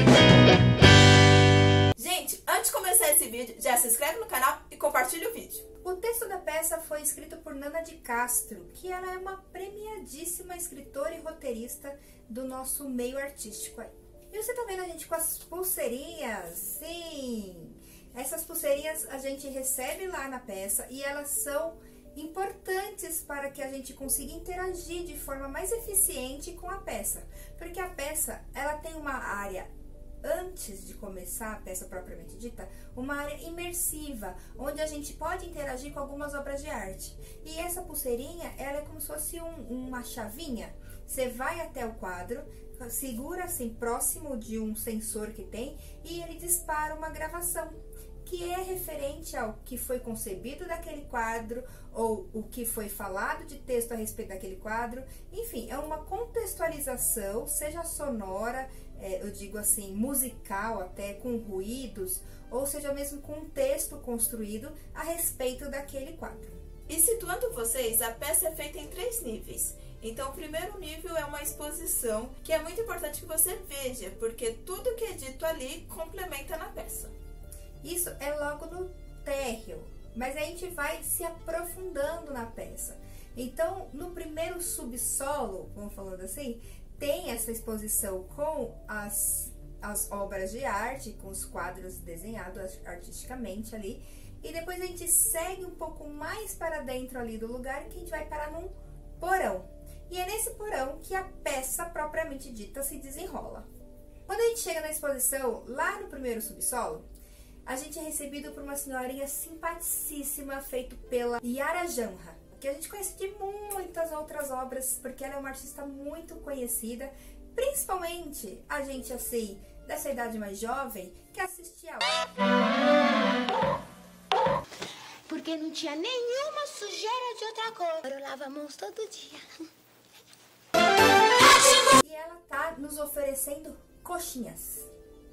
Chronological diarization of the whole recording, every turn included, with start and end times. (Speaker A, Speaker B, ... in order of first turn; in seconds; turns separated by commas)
Speaker A: 1.9-5.7, Speaker B: 5.8-29.7, Speaker B: 30.2-66.6, Speaker A: 66.9-77.1, Speaker B: 77.8-103.7, Speaker B: 104.3-107.0, Speaker B: 107.7-122.2, Speaker C: 125.3-129.7, Speaker B: 131.8-134.9